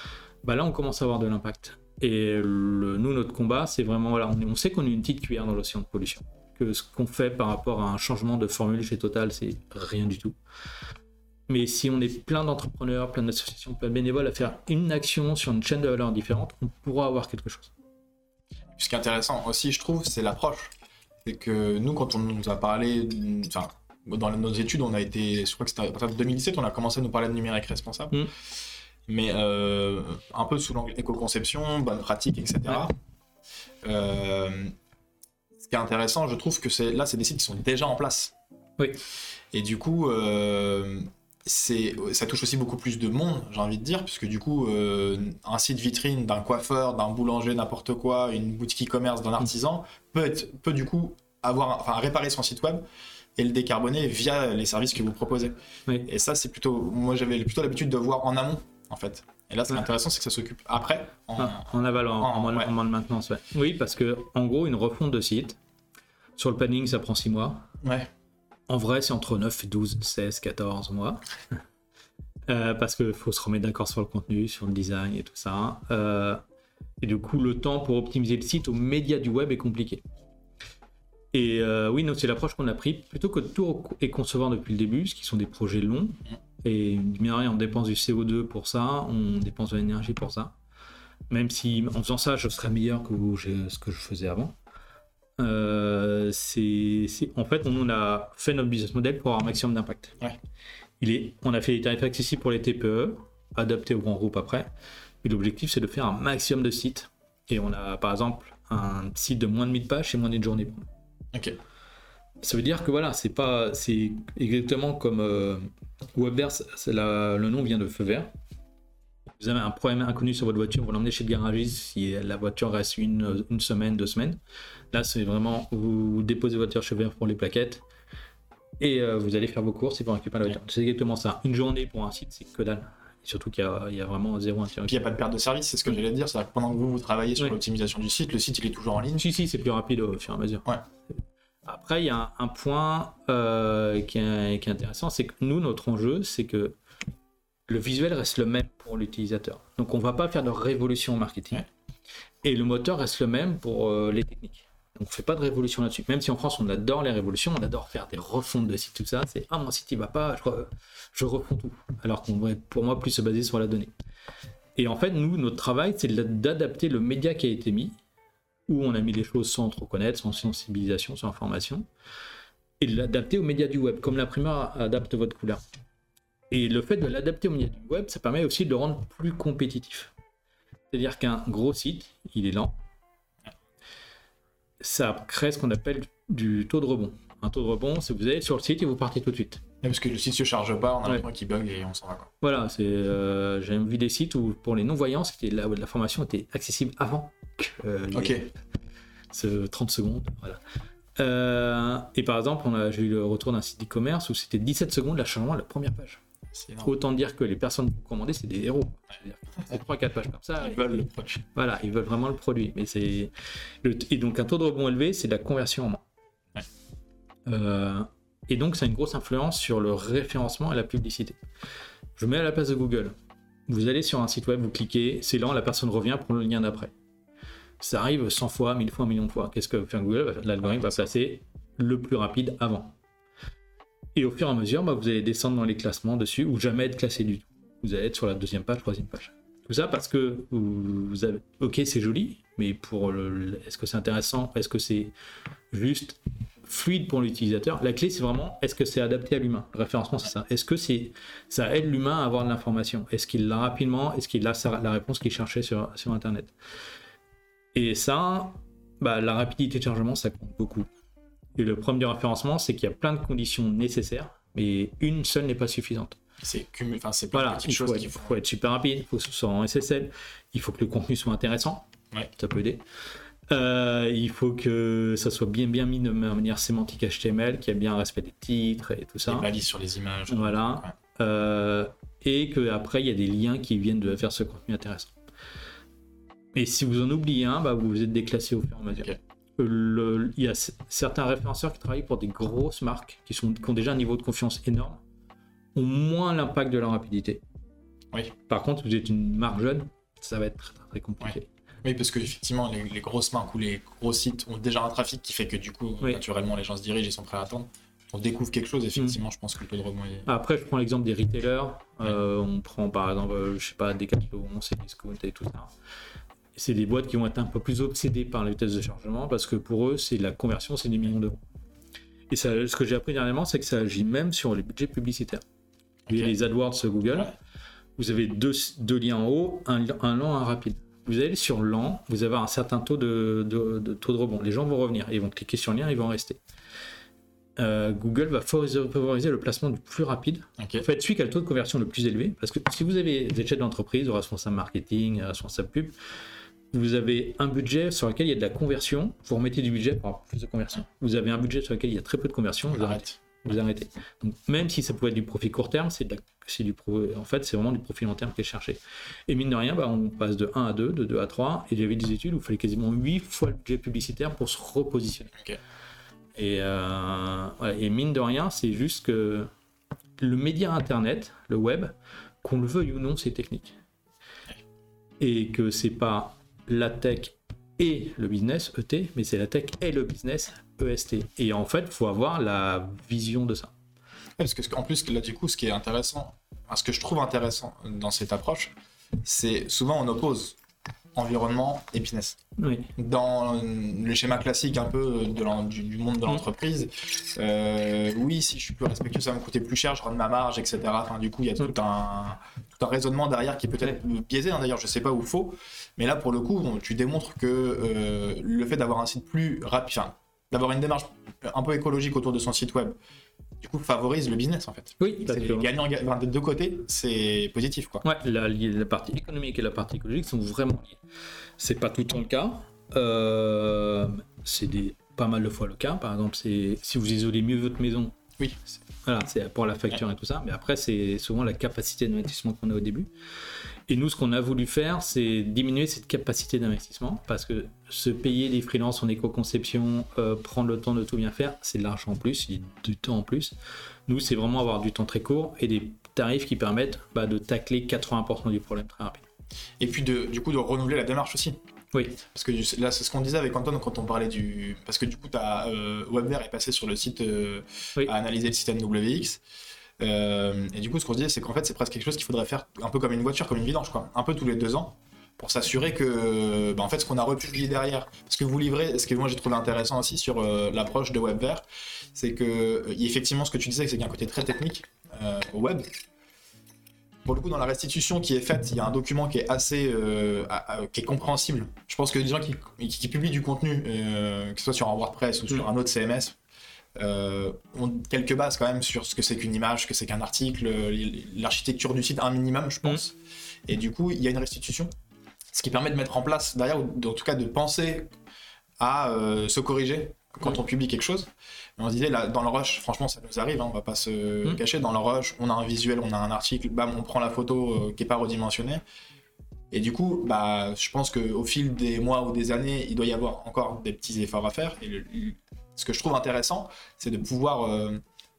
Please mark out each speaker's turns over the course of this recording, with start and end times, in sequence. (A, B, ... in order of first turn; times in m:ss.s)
0:00.4-0:10.4 A
0:11.5-0:17.7 A
0:18.8-0:20.7 B
0:21.2-0:28.2 B
0:29.1-0:32.9 B
0:33.8-0:34.7 B
0:35.6-0:38.3 B
0:39.5-0:52.8 B
0:53.4-0:55.5 B
0:56.0-1:02.7 B
1:01.4-1:05.6 A
1:06.4-1:07.7 A
1:07.8-1:08.1 B
1:08.7-1:11.2 A
1:12.5-1:16.4 A
1:17.0-1:20.0 A
1:21.3-1:30.5 A
1:31.3-1:34.5 A
1:35.4-1:40.2 A
1:41.0-1:44.7 A
1:45.2-1:50.9 A
1:52.4-1:58.3 A
1:59.3-2:04.4 A
2:04.9-2:07.8 A
2:08.8-2:15.0 A
2:14.9-2:19.3 B
2:19.2-2:20.7 A
2:21.6-2:26.8 A
2:27.7-2:31.6 A
2:32.4-2:43.9 A
2:44.8-2:48.0 A
2:48.7-2:51.8 A
2:52.8-2:55.6 A
2:56.5-3:00.1 A
3:00.9-3:02.7 A
3:04.8-3:09.6 A
3:09.8-3:12.3 B
3:12.4-3:18.5 A
3:18.1-3:18.5 B
3:19.3-3:20.6 A
3:21.2-3:26.2 A
3:26.5-3:26.9 B
3:26.8-3:30.9 A
3:30.6-3:31.4 B
3:31.5-3:33.3 A
3:33.8-3:36.0 A
3:37.5-3:41.4 A
3:42.2-3:43.1 A
3:43.7-3:46.9 A
3:47.8-3:52.9 A
3:50.6-3:51.1 B
3:54.2-4:05.1 A
4:05.7-4:16.5 A
4:17.7-4:20.9 A
4:21.6-4:26.2 A
4:26.4-4:28.4 B
4:27.3-4:32.8 A
4:33.5-4:39.5 A
4:39.2-4:40.9 B
4:40.3-4:45.1 A
4:46.5-4:55.0 A
4:55.7-4:57.4 A
4:58.5-5:01.5 A
5:01.2-5:10.3 B
5:10.3-5:15.7 A
5:16.5-5:21.4 A
5:22.3-5:25.4 A
5:26.1-5:26.3 B
5:26.1-5:27.3 A
5:28.0-5:36.4 A
5:37.6-5:45.9 A
5:40.6-5:40.8 B
5:46.7-6:05.3 A
5:52.7-5:53.2 B
6:06.4-6:09.5 A
6:10.2-6:13.8 A
6:15.2-6:23.7 A
6:24.4-6:28.7 B
6:29.2-6:30.5 B
6:31.2-6:32.4 B
6:32.6-6:32.9 A
6:33.0-6:52.9 B
6:53.6-6:58.0 B
6:55.0-6:55.7 A
6:58.0-7:01.0 A
7:01.6-7:08.2 A
7:09.0-7:13.1 A
7:13.9-7:23.5 A
7:24.1-7:29.2 A
7:29.8-7:31.6 B
7:31.9-7:32.2 A
7:32.2-7:39.4 B
7:40.0-7:55.9 B
7:57.2-8:06.4 B
8:07.0-8:13.2 B
8:13.7-8:14.9 B
8:15.5-8:18.1 B
8:18.8-8:28.8 B
8:29.7-8:38.0 B